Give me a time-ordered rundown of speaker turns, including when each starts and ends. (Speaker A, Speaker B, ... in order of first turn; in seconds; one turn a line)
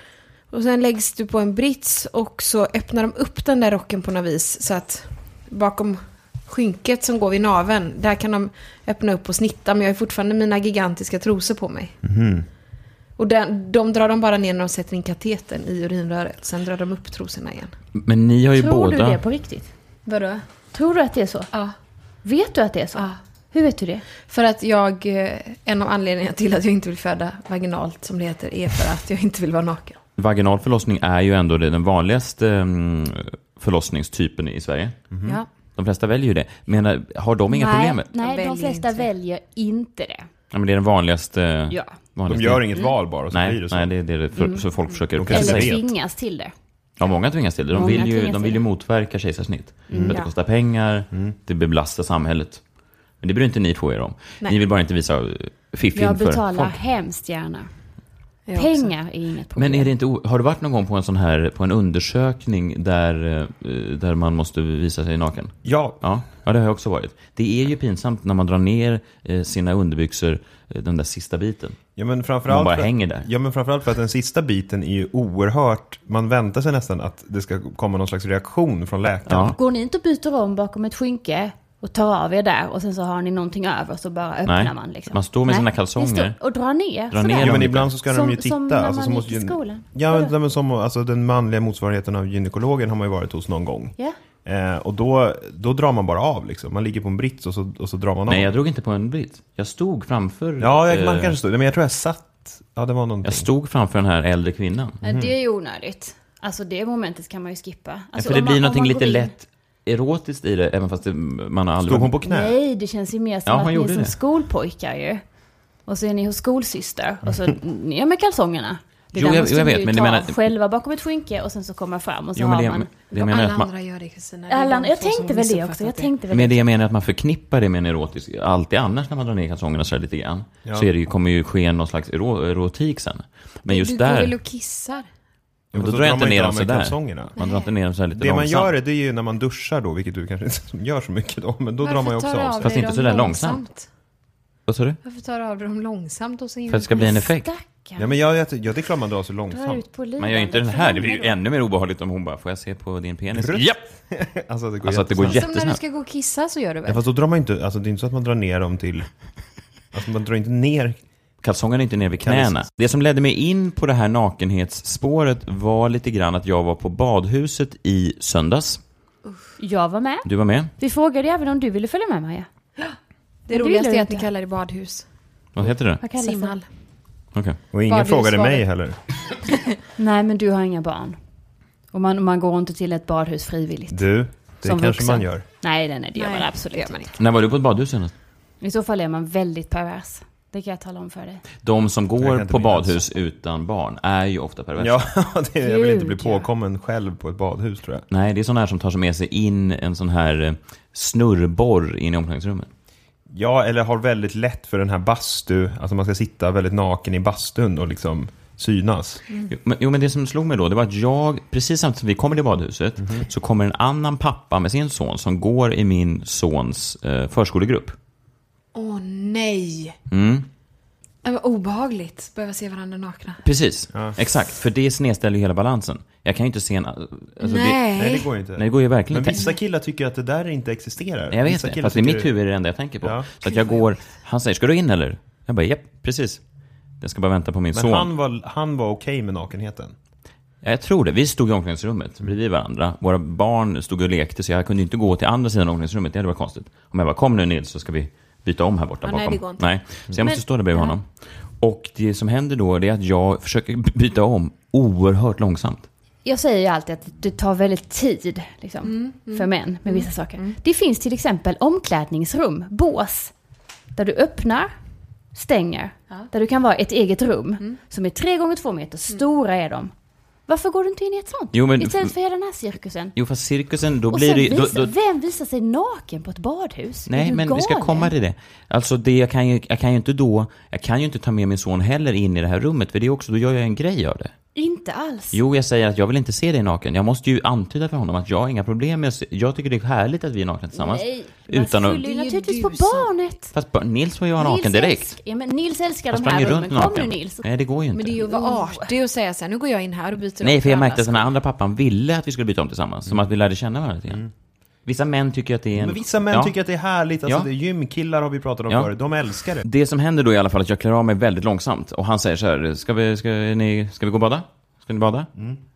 Speaker A: 0.5-11.9
Speaker B: 12.0-12.4
Speaker A: 13.2-17.7
Speaker C: 17.9-19.2
Speaker D: 18.5-19.7
Speaker A: 20.1-20.4
Speaker D: 20.7-21.5
Speaker D: 22.2-24.1
Speaker A: 22.9-23.2
Speaker A: 24.3-30.0
Speaker C: 30.2-35.0
Speaker B: 35.1-35.4
Speaker A: 35.2-35.5
Speaker C: 35.7-38.0
Speaker D: 37.5-40.3
Speaker A: 38.2-39.1
Speaker C: 40.5-42.7
Speaker D: 41.7-42.0
Speaker B: 42.3-43.9
Speaker C: 43.3-45.8
Speaker D: 44.4-44.7
Speaker B: 45.1-45.9
Speaker D: 45.3-46.5
Speaker C: 47.0-52.6
Speaker D: 47.7-48.6
Speaker D: 49.9-50.2
Speaker A: 49.9-50.3
Speaker C: 53.2-56.8
Speaker D: 55.9-57.7
Speaker A: 58.5-58.9
Speaker D: 58.5-59.9
Speaker C: 59.5-71.8
Speaker B: 65.6-66.0
Speaker B: 72.0-79.6
Speaker C: 72.5-73.3
Speaker C: 79.3-79.6
Speaker D: 79.5-90.3
Speaker C: 84.4-86.3
Speaker C: 87.1-87.9
Speaker B: 87.4-98.5
Speaker C: 98.3-101.4
Speaker B: 100.6-103.5
Speaker C: 103.2-105.0
Speaker D: 105.0-109.3
Speaker B: 105.0-105.3
Speaker C: 108.2-112.1
Speaker B: 111.8-112.5
Speaker D: 112.2-115.2
Speaker C: 113.5-114.1
Speaker D: 115.8-123.0
Speaker C: 119.1-120.4
Speaker C: 122.3-123.7
Speaker A: 123.1-126.1
Speaker D: 124.5-126.6
Speaker C: 126.3-134.3
Speaker A: 133.7-135.1
Speaker B: 135.7-137.3
Speaker C: 135.7-138.7
Speaker A: 137.4-137.7
Speaker B: 138.1-142.7
Speaker A: 141.8-143.9
Speaker C: 142.6-143.6
Speaker C: 144.7-145.0
Speaker A: 145.0-147.1
Speaker C: 146.7-147.5
Speaker D: 146.9-148.1
Speaker B: 148.0-149.8
Speaker D: 149.5-151.4
Speaker C: 150.2-153.8
Speaker B: 153.3-155.5
Speaker C: 154.8-155.8
Speaker A: 155.2-157.0
Speaker B: 156.8-159.1
Speaker B: 159.9-161.0
Speaker C: 161.4-168.8
Speaker B: 162.2-162.6
Speaker D: 169.6-172.5
Speaker C: 170.2-170.7
Speaker A: 173.5-175.1
Speaker D: 173.5-174.3
Speaker C: 175.5-176.0
Speaker D: 176.0-176.6
Speaker A: 176.1-176.7
Speaker C: 177.3-177.6
Speaker B: 177.7-179.0
Speaker A: 177.8-178.6
Speaker D: 180.0-181.2
Speaker D: 181.9-187.1
Speaker B: 183.9-185.4
Speaker A: 186.1-187.1
Speaker C: 187.2-188.1
Speaker D: 188.6-191.4
Speaker C: 191.6-195.0
Speaker B: 192.2-193.0
Speaker B: 194.8-198.0
Speaker D: 195.6-196.5
Speaker C: 198.1-202.7
Speaker B: 203.3-209.2
Speaker C: 209.5-217.9
Speaker A: 218.7-219.9
Speaker C: 220.1-220.5
Speaker A: 221.2-223.4
Speaker C: 223.4-227.8
Speaker A: 227.4-228.3
Speaker B: 227.9-232.3
Speaker C: 228.6-229.5
Speaker C: 231.3-236.4
Speaker B: 233.0-233.3
Speaker C: 237.0-238.1
Speaker B: 237.7-239.9
Speaker C: 240.6-251.0
Speaker A: 249.0-249.7
Speaker D: 250.2-250.9
Speaker C: 251.6-255.9
Speaker D: 256.2-263.3
Speaker A: 258.8-260.6
Speaker D: 263.9-264.7
Speaker D: 265.3-269.9
Speaker D: 270.5-273.1
Speaker C: 271.5-272.1
Speaker C: 273.1-274.9
Speaker D: 274.1-278.1
Speaker C: 277.1-284.3
Speaker D: 284.6-285.4
Speaker C: 285.3-292.0
Speaker D: 290.7-293.5
Speaker A: 292.0-293.2
Speaker C: 293.5-295.2
Speaker D: 294.4-297.5
Speaker C: 296.1-298.2
Speaker A: 297.9-301.3
Speaker D: 298.2-298.9
Speaker C: 300.4-304.2
Speaker C: 304.8-306.5
Speaker B: 305.7-309.6
Speaker C: 309.6-315.3